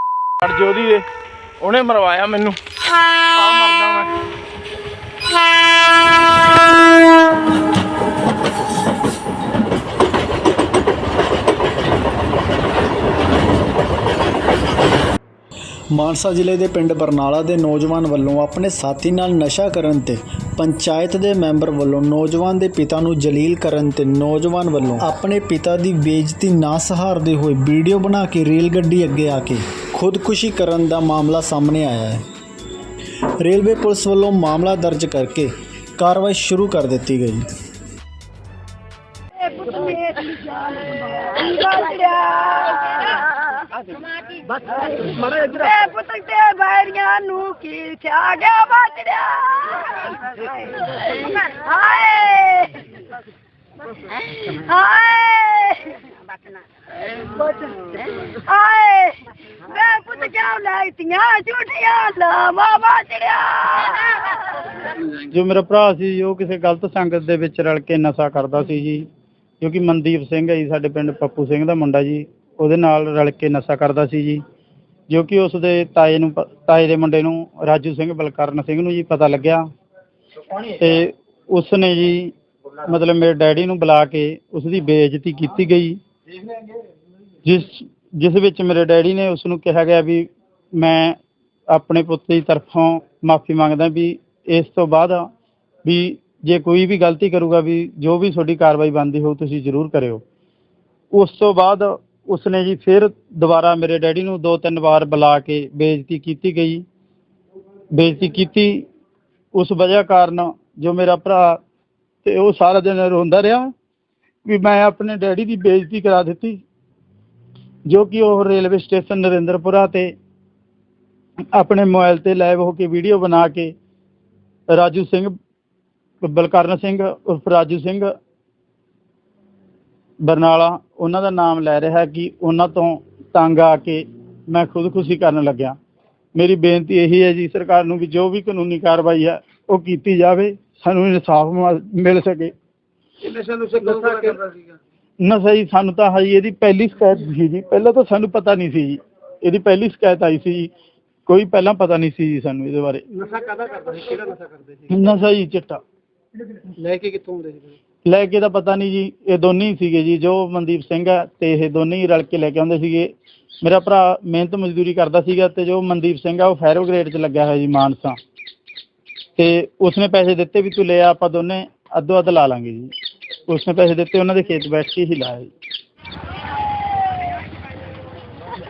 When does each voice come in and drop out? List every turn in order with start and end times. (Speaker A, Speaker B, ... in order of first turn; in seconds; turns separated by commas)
Speaker A: 0.4-1.1, Speaker A: 1.6-2.6, Speaker A: 3.4-4.1, Speaker B: 15.9-32.2, Speaker B: 33.4-37.5, Speaker C: 39.4-43.7, Speaker C: 44.3-53.1, Speaker C: 54.0-64.7, Speaker D: 65.2-69.1, Speaker D: 69.6-74.4, Speaker D: 75.1-79.7, Speaker D: 80.6-86.0, Speaker D: 87.4-91.2, Speaker D: 91.7-95.3, Speaker D: 95.8-100.2, Speaker D: 101.1-106.8, Speaker D: 107.9-108.9, Speaker D: 109.5-111.6, Speaker D: 112.2-113.7, Speaker D: 114.5-116.6, Speaker D: 117.9-120.1, Speaker D: 121.5-123.7, Speaker D: 124.7-125.3, Speaker D: 126.2-128.1, Speaker D: 130.2-135.8, Speaker D: 136.3-142.5, Speaker E: 143.6-143.8, Speaker D: 143.7-144.4, Speaker D: 145.2-150.7, Speaker D: 151.3-153.1, Speaker E: 153.4-154.5, Speaker D: 154.9-155.8, Speaker E: 156.8-157.7, Speaker D: 158.0-168.2, Speaker D: 169.4-172.9, Speaker D: 173.5-175.5